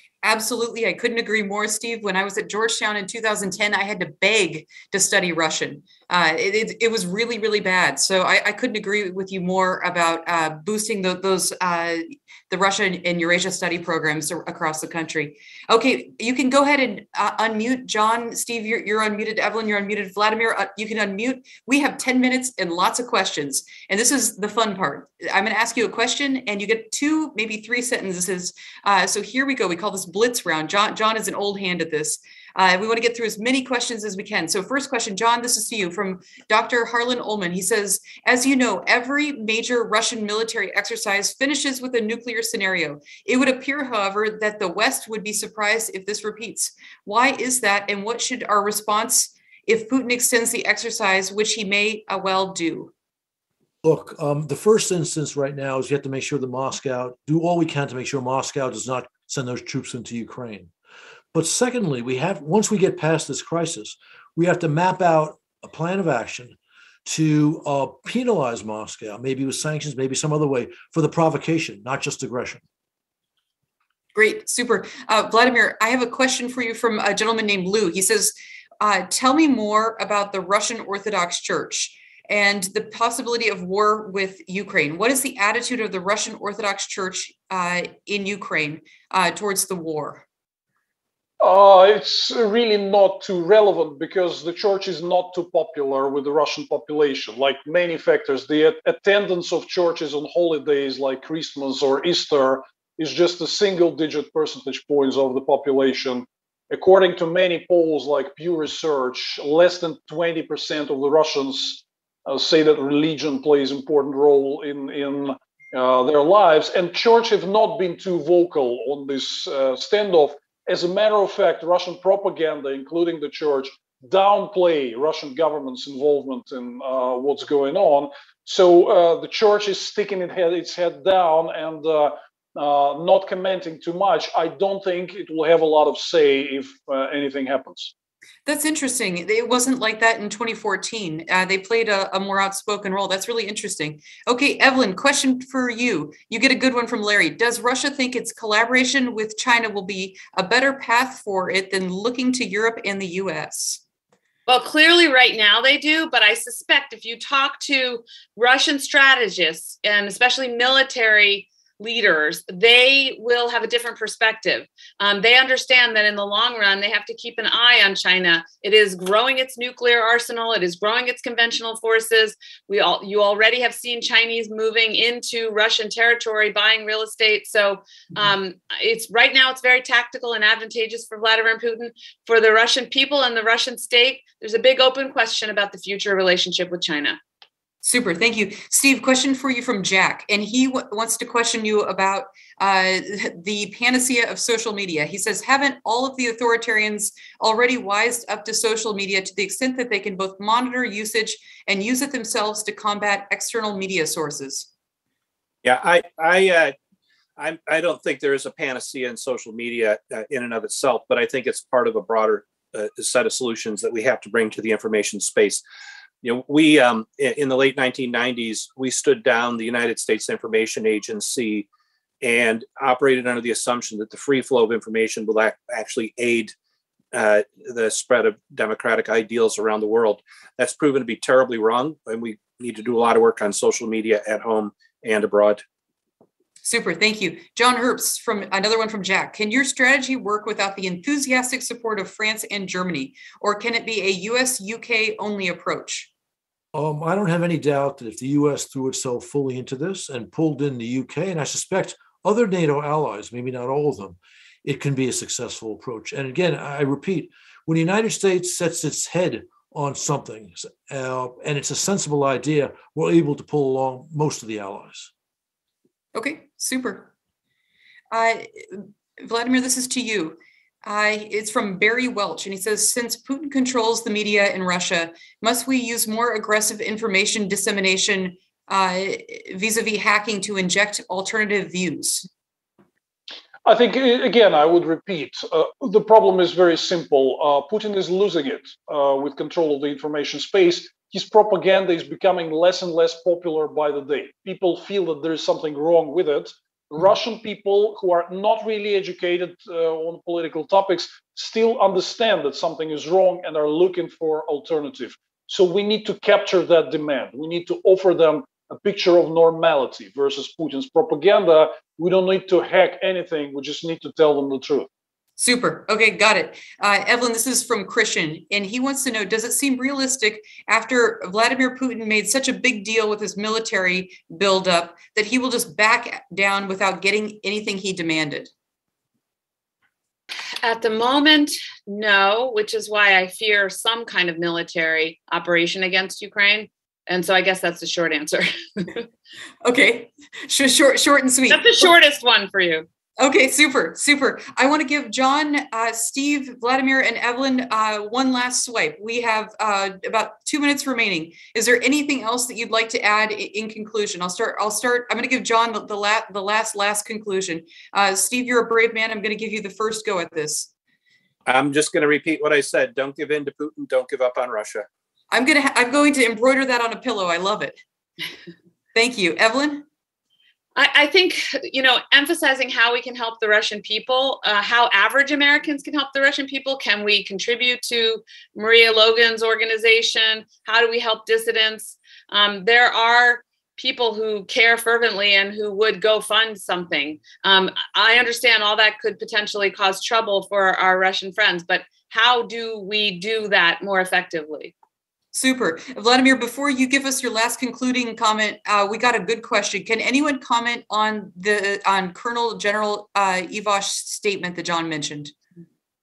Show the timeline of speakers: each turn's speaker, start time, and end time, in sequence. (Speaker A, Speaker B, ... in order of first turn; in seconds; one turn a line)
Speaker A: 0.2-52.9
Speaker B: 53.8-60.7
Speaker B: 61.3-72.6
Speaker A: 74.1-90.2
Speaker C: 91.4-137.9
Speaker A: 138.5-153.8
Speaker D: 154.5-187.2
Speaker A: 187.8-204.7
Speaker E: 205.6-206.7
Speaker E: 207.4-215.6
Speaker E: 216.2-221.7
Speaker E: 222.2-226.5
Speaker E: 227.1-235.6
Speaker A: 236.6-246.1
Speaker B: 246.7-265.1
Speaker A: 266.1-267.1
Speaker A: 268.1-282.3
Speaker C: 283.6-314.9
Speaker A: 315.4-328.5
Speaker D: 330.6-339.1
Speaker A: 339.6-341.9
Speaker D: 341.5-342.9
Speaker A: 343.2-360.7
Speaker E: 361.5-364.9
Speaker A: 365.3-367.8
Speaker A: 368.9-369.9
Speaker D: 370.8-394.7
Speaker A: 395.3-405.4